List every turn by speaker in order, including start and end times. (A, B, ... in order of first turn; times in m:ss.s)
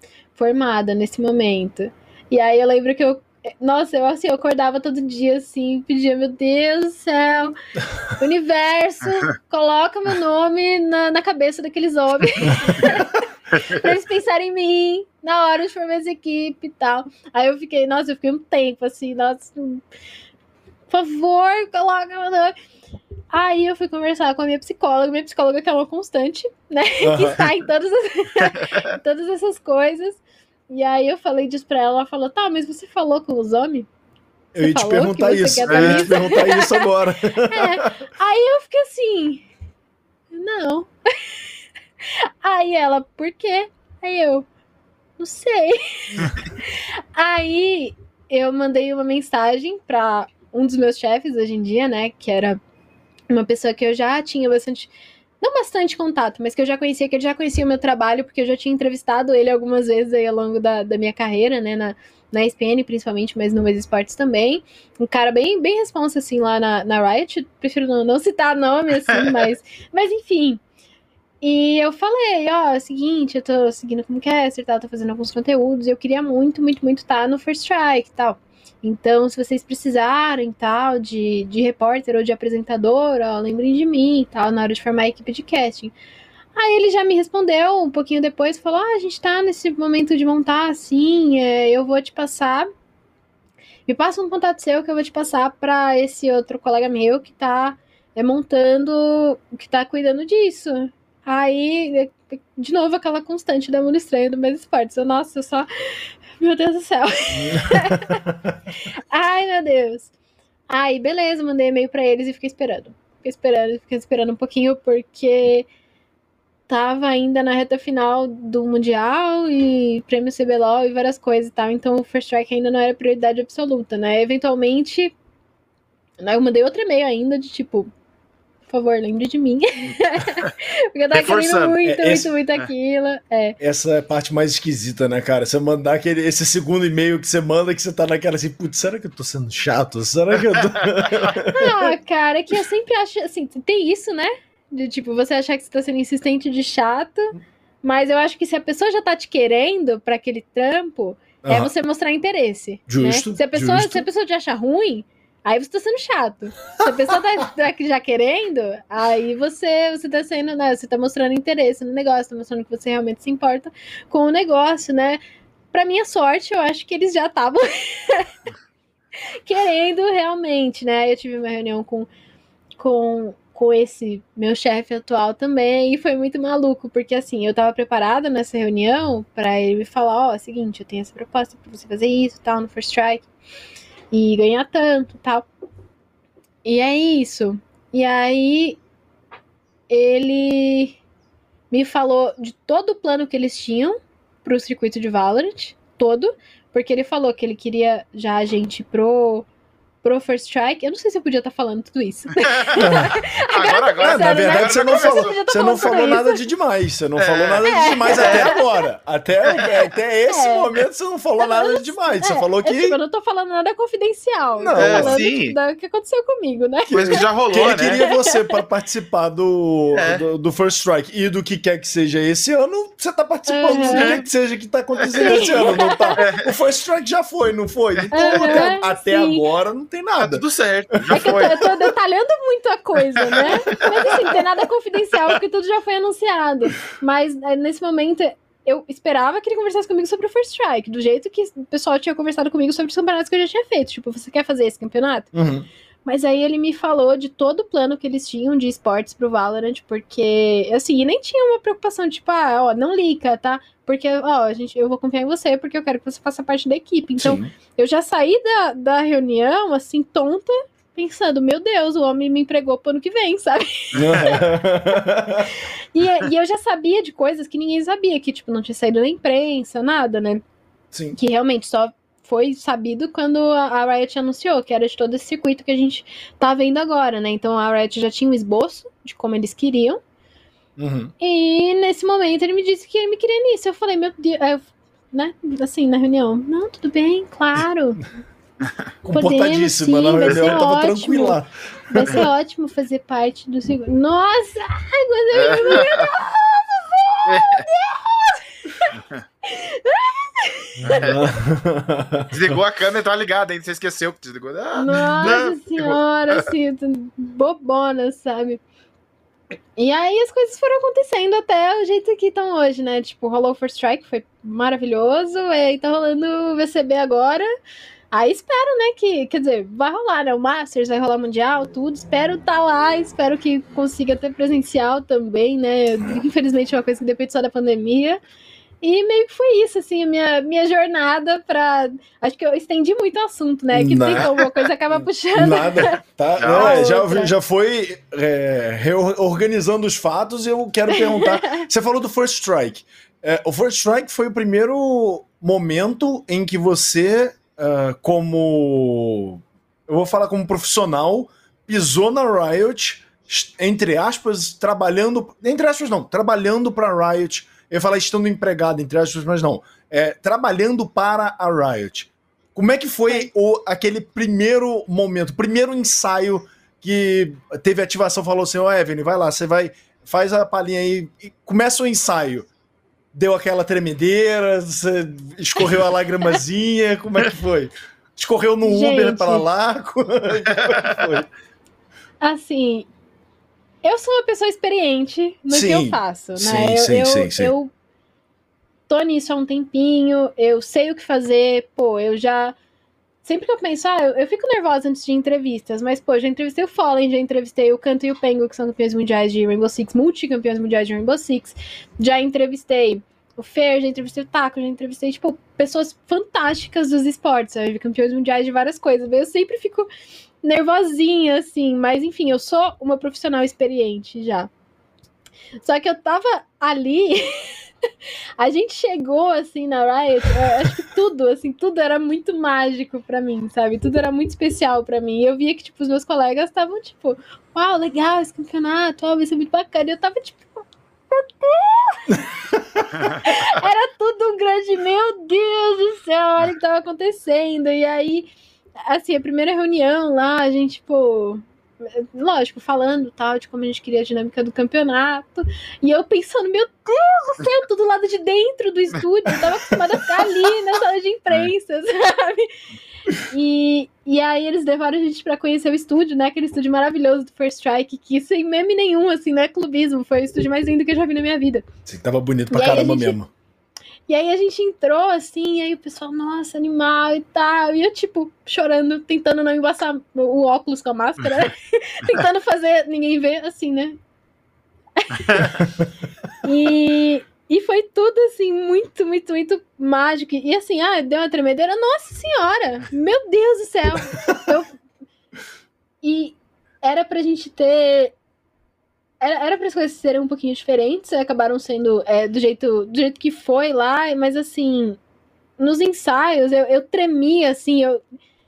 0:00.3-0:07.5 A
0:08.1-0:19.8 A
0:20.9-0:22.5 A
0:23.3-0:33.9 A
0:27.0-0:27.5 B
0:28.5-0:28.9 C
0:34.5-0:37.9 B
0:34.6-0:36.9 A
0:35.7-0:36.2 C
0:37.5-0:39.4 A
0:40.3-0:41.4 A
0:42.0-0:44.5 A
0:45.2-0:52.6 A
0:53.3-1:10.6 A
1:09.1-1:09.4 C
1:11.4-1:25.9 A
1:26.5-1:32.7 A
1:33.9-1:48.2 A
1:47.4-1:48.6 B
1:48.9-1:50.1 A
1:50.7-1:55.7 A
1:56.7-2:05.2 A
2:06.2-2:07.9 A
2:08.7-2:13.6 A
2:11.1-2:11.8 C
2:11.8-2:12.3 B
2:13.6-2:21.9 B
2:20.5-2:21.3 C
2:21.4-2:45.2 A
2:31.4-2:31.7 B
2:32.9-2:34.0 B
2:45.7-2:48.3 A
2:49.4-2:52.1 A
2:52.8-3:03.3 A
3:04.1-3:05.4 A
3:06.6-3:08.8 A
3:09.9-3:11.0 A
3:11.7-3:19.5 A
3:20.0-3:26.4 A
3:22.4-3:26.0 C
3:22.8-3:23.2 B
3:24.0-3:33.0 B
3:27.2-3:28.5 C
3:27.6-3:28.8 A
3:30.3-3:30.7 A
3:31.4-3:38.6 A
3:34.6-3:35.2 B
3:34.8-3:35.6 C
3:36.9-3:38.0 C
3:37.0-3:50.4 B
3:40.0-3:40.2 C
3:43.5-3:44.2 A
3:43.8-3:44.2 C
3:45.0-3:45.6 C
3:45.1-3:46.4 A
3:46.2-3:46.4 C
3:48.0-3:48.6 C
3:48.1-3:49.4 A
3:50.2-3:51.6 C
3:50.9-3:51.7 B
3:51.1-4:05.3 A
3:53.2-3:54.2 C
4:05.3-4:05.7 B
4:06.0-4:24.4 A
4:17.2-4:17.5 B
4:23.9-4:25.5 B
4:24.0-4:24.3 C
4:25.9-4:30.4 A
4:30.9-4:31.2 B
4:31.1-4:40.0 A
4:40.8-4:41.1 B
4:41.2-4:48.0 A
4:49.0-4:52.2 B
4:49.1-4:51.4 A
4:51.9-5:01.0 A
4:55.3-4:56.1 C
4:57.2-4:57.7 C
4:58.9-4:59.2 C
5:00.8-5:01.2 C
5:00.9-5:02.3 B
5:02.3-5:06.5 C
5:04.8-5:08.6 A
5:09.8-5:17.5 A
5:18.1-5:28.2 A
5:28.8-5:37.3 A
5:33.7-5:34.3 B
5:34.1-5:34.6 C
5:34.9-6:12.5 B
5:36.4-5:36.8 C
5:40.9-5:41.6 A
6:13.1-6:21.3 B
6:18.6-6:19.4 A
6:20.5-6:21.0 C
6:22.2-6:22.9 A
6:23.8-6:27.7 A
6:25.5-6:27.5 B
6:28.9-6:32.5 A
6:33.2-6:49.9 A
6:50.4-6:54.5 A
6:55.6-6:57.6 A
6:58.4-7:10.5 A
7:11.1-7:12.2 A
7:12.5-7:12.9 B
7:13.0-7:18.3 A
7:18.8-7:32.5 A
7:33.3-7:41.6 A
7:41.8-7:43.3 B
7:42.5-7:43.2 A
7:44.1-7:54.0 A
7:55.0-7:55.5 A
7:56.4-8:04.7 A
8:06.0-8:08.1 A
8:09.2-8:15.0 A
8:15.6-8:18.0 A